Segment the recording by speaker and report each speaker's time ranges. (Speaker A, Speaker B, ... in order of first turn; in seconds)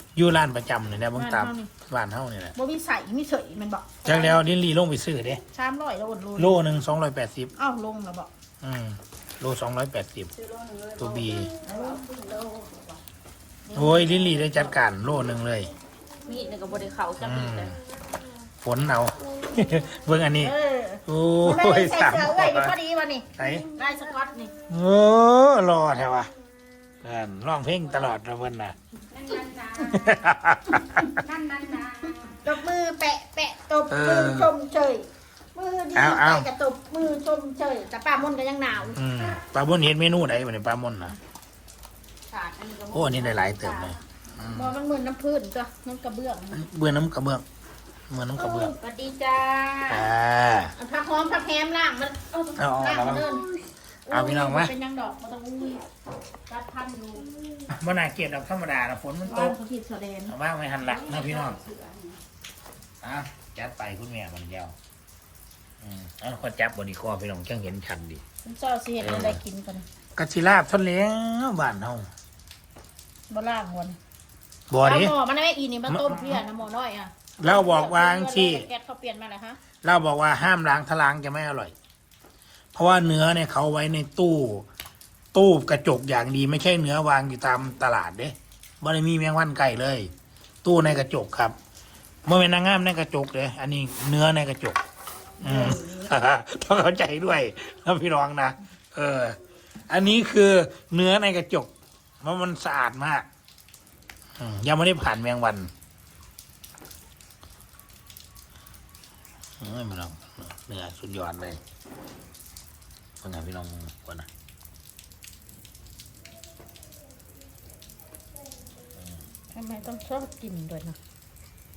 Speaker A: 0.1-2.5, 4.0-5.4, 6.3-7.5, 8.6-10.3, 11.0-11.5, 13.7-15.7, 17.2-17.8, 18.6-20.5, 21.1-22.7, 23.4-23.7, 24.7-26.3, 27.0-28.8, 29.9-31.1, 33.9-34.5, 35.9-36.5, 38.9-41.1, 42.9-44.7, 46.5-47.4, 48.1-48.7, 49.9-50.7, 52.5-53.4, 54.1-54.7, 57.7-59.6, 60.3-61.6, 63.0-64.8, 65.8-68.2, 69.0-69.4, 70.2-72.1, 74.7-75.1, 75.9-76.4, 77.4-78.7, 79.8-81.7, 82.7-84.7, 85.3-90.1, 90.6-91.5, 92.2-94.8, 95.4-101.7, 102.2-103.2, 104.4-105.7, 109.6-111.6, 113.2-114.3
Speaker B: 1.1-1.7, 2.5-4.4, 5.5-6.6, 7.6-8.3, 11.6-12.0, 13.7-14.1, 20.4-24.5, 32.4-39.1, 44.5-46.6, 50.8-53.5, 54.1-55.8, 59.3-60.3, 68.4-69.8, 73.3-74.0, 74.8-79.6, 95.4-96.1, 119.5-121.0
Speaker C: 10.3-13.0, 16.2-17.8, 29.1-30.3, 31.1-32.4, 42.3-44.0, 48.6-50.1, 56.5-57.2, 60.8-62.2